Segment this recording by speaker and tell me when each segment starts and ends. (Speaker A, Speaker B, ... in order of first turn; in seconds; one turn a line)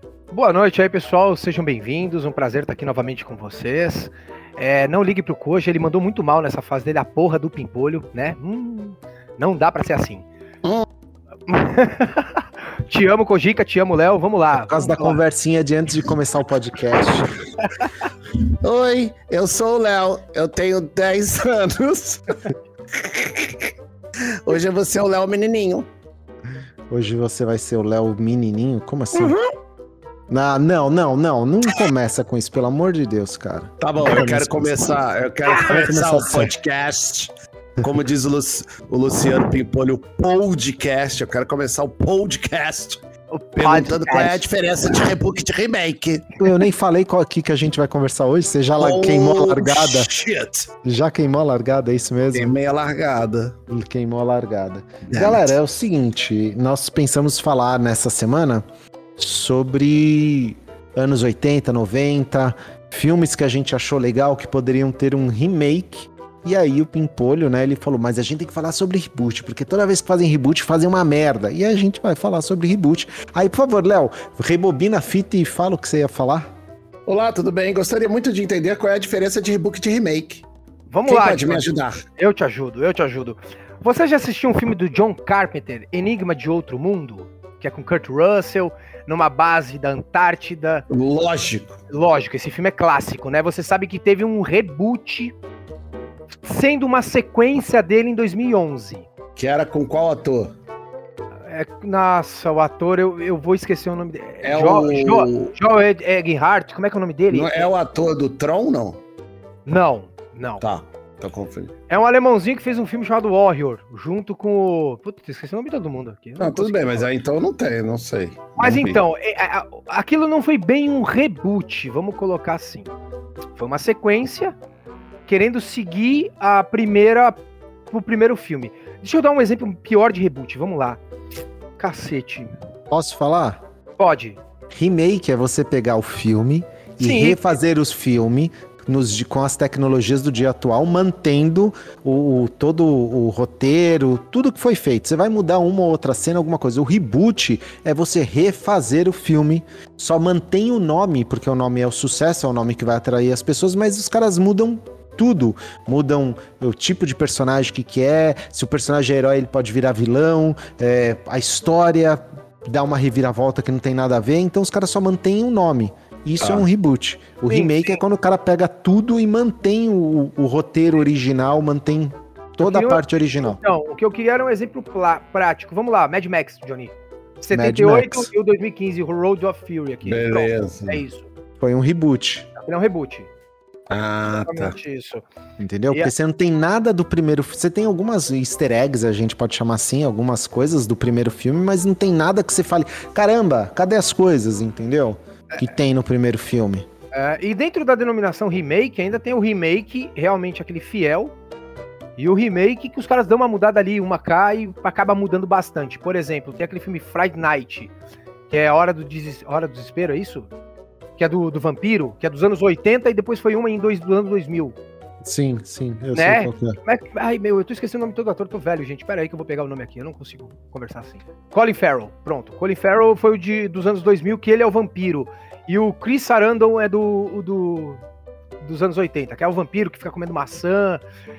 Speaker A: 0.3-10.2
Speaker A: 11.5-15.2
Speaker B: 14.5-17.3
Speaker C: 18.6-23.7
Speaker C: 24.4-25.9
Speaker B: 26.9-29.4
Speaker C: 29.1-29.5
Speaker B: 30.3-35.0
Speaker C: 33.8-43.0
Speaker B: 35.5-36.5
Speaker A: 43.3-44.4
Speaker C: 43.6-46.4
Speaker B: 46.4-50.1
Speaker C: 48.8-50.7
Speaker B: 50.8-52.5
Speaker C: 52.3-53.5
Speaker B: 53.7-58.6
Speaker C: 55.0-55.5
Speaker B: 59.2-76.5
Speaker C: 77.1-80.4
Speaker A: 80.9-90.8
Speaker C: 81.0-82.0
Speaker C: 90.9-91.8
Speaker A: 91.9-95.3
Speaker A: 96.4-99.0
Speaker C: 99.4-100.5
Speaker A: 101.5-107.7
Speaker C: 104.4-105.5
Speaker C: 107.3-109.0
Speaker A: 109.7-110.6
Speaker C: 110.6-111.7
Speaker A: 111.9-117.1
Speaker C: 116.4-119.0
Speaker A: 118.6-122.9
Speaker A: 123.5-124.6
Speaker A: 125.3-131.0
Speaker A: 131.8-132.5
Speaker B: 132.9-133.6
Speaker A: 134.0-134.4
Speaker B: 134.7-173.6
Speaker A: 137.0-137.5
Speaker C: 166.4-166.7
Speaker A: 167.5-168.0
Speaker A: 172.6-181.3
Speaker B: 177.5-178.3
Speaker C: 180.1-181.0
Speaker B: 181.6-182.5
Speaker A: 182.6-183.3
Speaker C: 183.9-184.7
Speaker A: 184.3-185.2
Speaker B: 185.6-196.9
Speaker A: 197.1-201.3
Speaker A: 202.2-207.9
Speaker A: 208.5-210.5
Speaker A: 211.2-214.8
Speaker B: 215.2-216.8
Speaker A: 216.1-228.0
Speaker A: 228.6-231.0